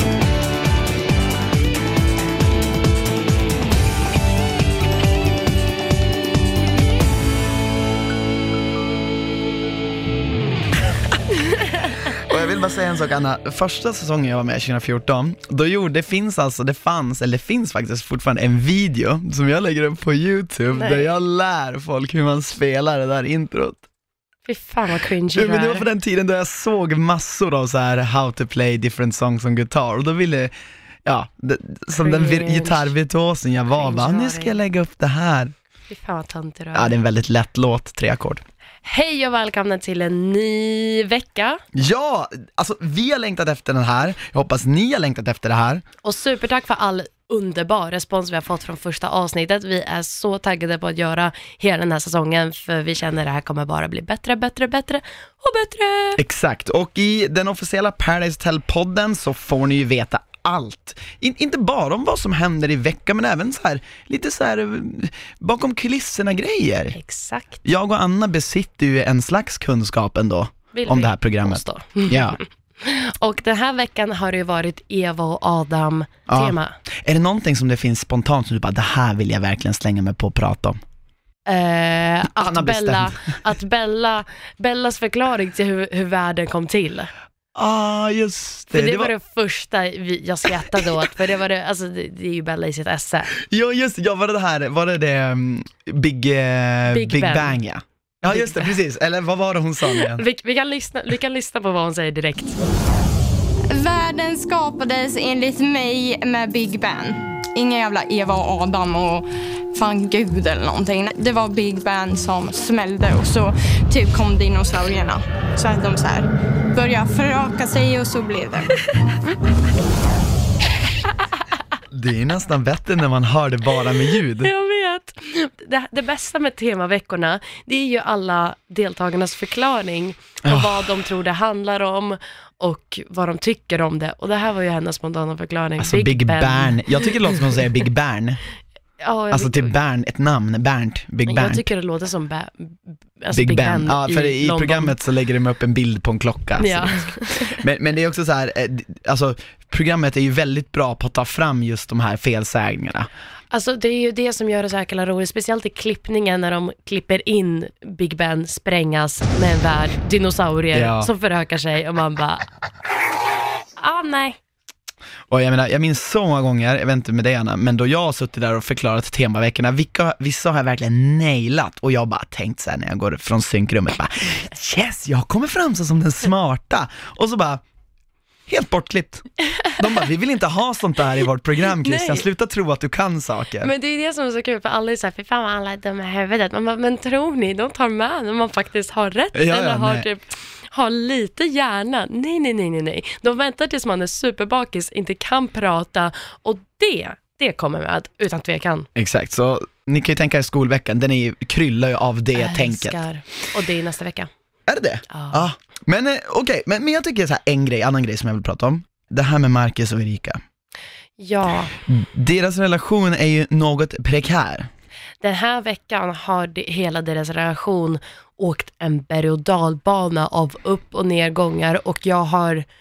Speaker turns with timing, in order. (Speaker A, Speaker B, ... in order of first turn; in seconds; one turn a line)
Speaker A: 11.4-11.9
Speaker B: 12.1-23.8
Speaker A: 20.7-21.1
Speaker A: 24.4-25.9
Speaker B: 25.3-30.5
Speaker B: 31.0-35.5
Speaker A: 32.0-32.9
Speaker A: 33.8-34.6
Speaker A: 35.9-36.9
Speaker B: 36.7-38.4
Speaker A: 38.8-41.6
Speaker B: 41.7-45.8
Speaker A: 46.0-56.2
Speaker B: 56.2-67.0
Speaker A: 66.9-67.6
Speaker B: 67.6-72.4
Speaker A: 70.7-76.8
Speaker B: 76.3-80.8
Speaker A: 81.5-87.1
Speaker B: 82.2-83.4
Speaker B: 87.5-89.1
Speaker A: 88.7-93.3
Speaker B: 93.3-100.2
Speaker A: 96.9-97.5
Speaker A: 98.3-98.8
Speaker A: 99.9-102.6
Speaker C: 103.7-118.7
Speaker B: 121.9-124.5
Speaker A: 124.4-137.1
Speaker B: 130.4-131.0
Speaker B: 135.8-138.4
Speaker A: 139.0-139.7
Speaker B: 139.3-141.7
Speaker A: 141.2-144.9
Speaker B: 143.3-153.1
Speaker A: 146.6-147.6
Speaker A: 153.5-162.4
Speaker B: 160.7-161.1
Speaker A: 163.8-164.4
Speaker B: 165.3-177.6
Speaker B: 178.5-183.7
Speaker A: 181.8-182.2
Speaker A: 183.6-198.9
Speaker B: 189.3-190.1
Speaker B: 198.9-203.0
Speaker A: 202.3-204.3
Speaker B: 204.7-210.4
Speaker A: 205.1-205.4
Speaker A: 211.2-211.7
Speaker B: 211.9-214.7
Speaker A: 215.2-222.6